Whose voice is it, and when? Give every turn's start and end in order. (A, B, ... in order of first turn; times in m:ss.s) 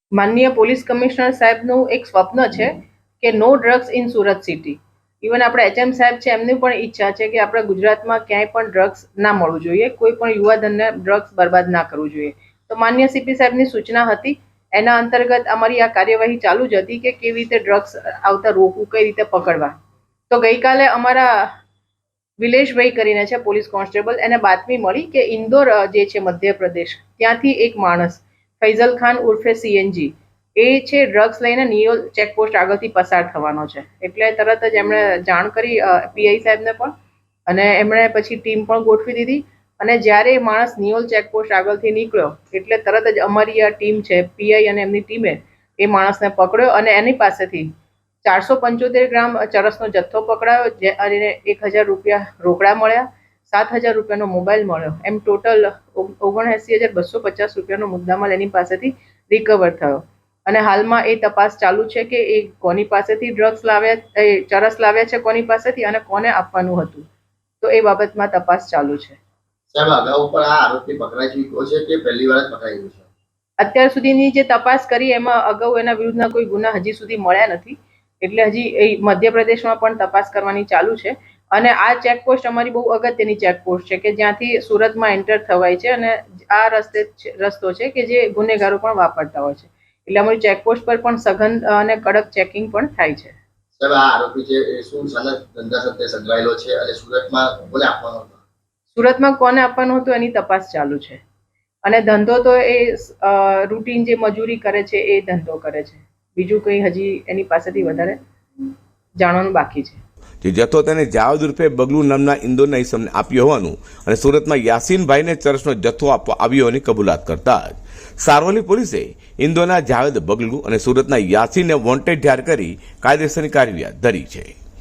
0:00.2-0:19.7 A
0:20.3-0:21.5 A
0:22.4-0:37.0 A
0:37.5-0:47.7 A
0:48.2-1:07.1 A
1:07.6-1:09.2 A
1:09.7-1:13.0 B
1:13.6-1:33.4 A
1:33.8-1:38.4 B
1:38.9-1:41.2 A
1:41.8-1:48.2 A
1:49.2-1:50.0 A
1:50.4-2:04.6 C